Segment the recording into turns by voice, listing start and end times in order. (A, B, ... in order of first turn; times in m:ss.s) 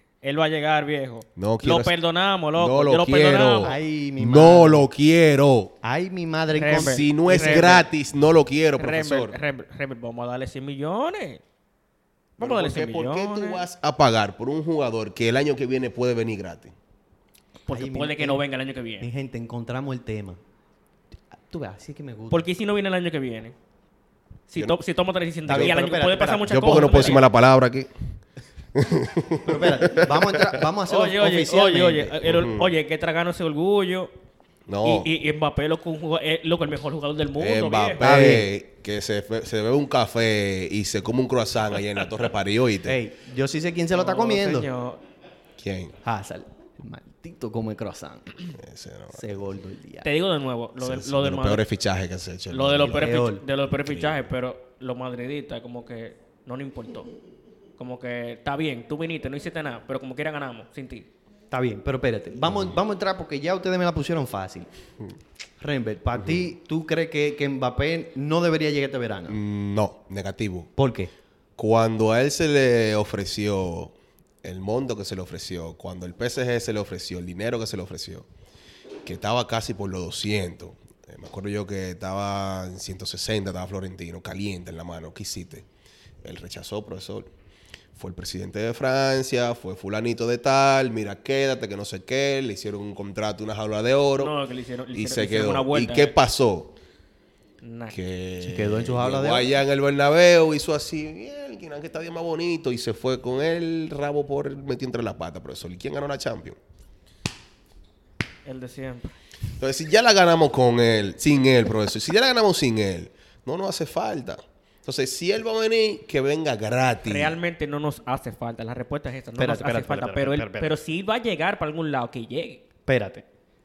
0:00.2-0:03.7 A
0:01.4-0:02.0 B
0:02.5-0:05.7 B
0:03.6-0:04.9 C
0:05.8-0:07.1 C
0:06.6-0:07.8 A
0:06.7-0:09.4 B
0:08.8-0:11.4 A
0:12.4-0:13.6 A
0:12.4-0:16.7 B
0:17.6-0:19.1 A
0:17.7-0:18.4 C
0:19.0-0:20.4 C
0:21.3-0:22.4 C
0:22.3-0:23.5 A
0:24.5-0:27.2 A
0:25.4-0:27.2 C
0:25.5-0:25.7 B
0:26.4-0:27.9 B
0:28.7-0:30.6 B
0:29.4-0:32.2 C
0:30.9-0:34.1 A
0:32.2-0:32.7 B
0:34.7-0:35.1 B
0:34.8-0:38.0 A
0:37.4-0:43.0 B
0:38.0-0:38.5 C
0:42.8-0:44.7 C
0:43.9-0:45.0 A
0:45.6-0:46.0 B
0:46.0-0:48.5 C
0:48.5-0:49.3 B
0:49.1-0:50.1 C
0:50.0-0:51.6 A
0:50.8-0:53.1 B
0:52.5-0:57.1 A
0:52.8-0:53.4 C
0:53.8-0:54.2 B
0:57.8-1:01.1 A
1:01.5-1:04.7 C
1:02.4-1:02.7 B
1:05.6-1:09.4 C
1:09.3-1:10.7 B
1:10.8-1:11.1 C
1:11.6-1:18.2 B
1:19.0-1:25.6 B
1:26.2-1:27.3 B
1:28.0-1:34.3 B
1:34.2-1:36.1 A
1:34.9-1:36.7 B
1:37.6-1:37.9 A
1:37.9-1:46.6 B
1:38.4-1:39.5 C
1:48.4-1:49.2 A
1:49.6-1:57.4 B
1:57.0-2:02.6 A
1:59.4-2:00.7 C
2:02.9-2:03.2 C